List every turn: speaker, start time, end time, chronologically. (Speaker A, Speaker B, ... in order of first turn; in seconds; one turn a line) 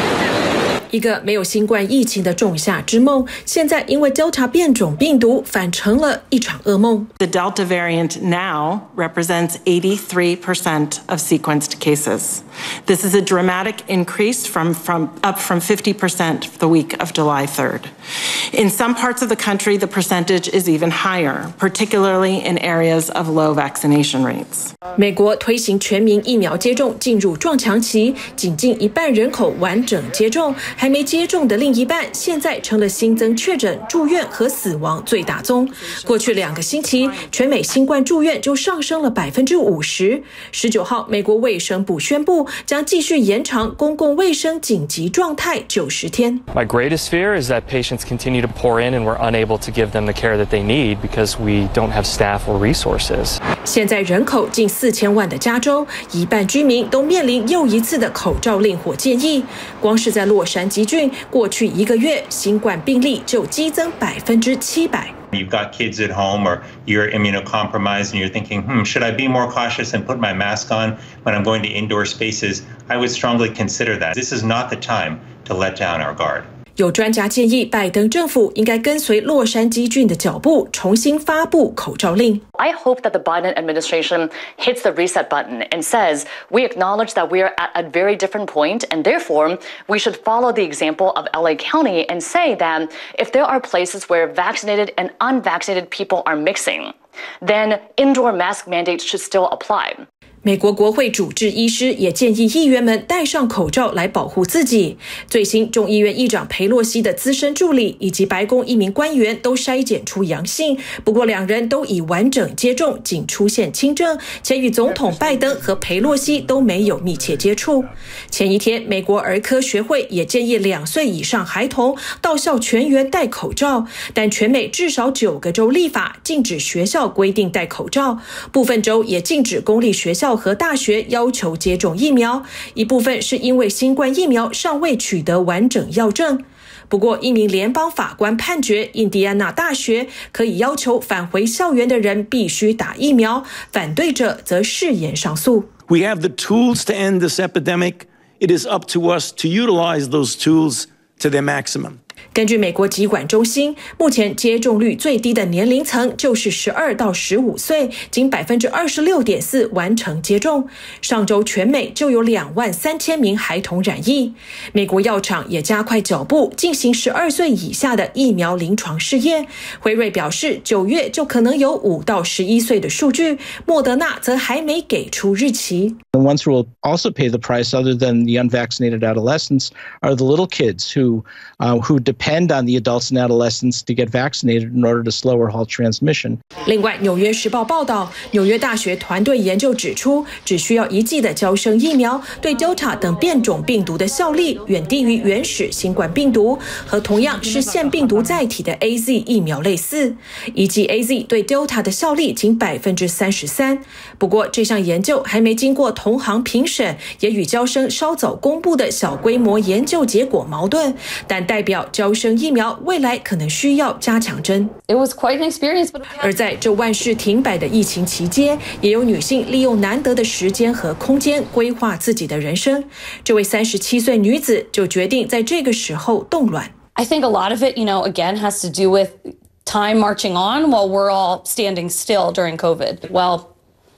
Speaker A: 0.9-7.1
Speaker B: 7.2-17.9
Speaker B: 18.5-24.7
Speaker A: 24.9-46.4
Speaker B: 35.8-36.3
Speaker C: 46.5-53.4
Speaker A: 53.6-65.1
Speaker D: 65.3-76.5
Speaker A: 76.8-82.4
Speaker E: 82.6-100.0
Speaker A: 100.4-145.7
Speaker F: 145.9-152.0
Speaker A: 152.3-176.0
Speaker G: 176.1-186.4
Speaker A: 186.6-214.7
Speaker H: 214.9-216.2
Speaker A: 216.2-226.7
Speaker H: 227.0-233.5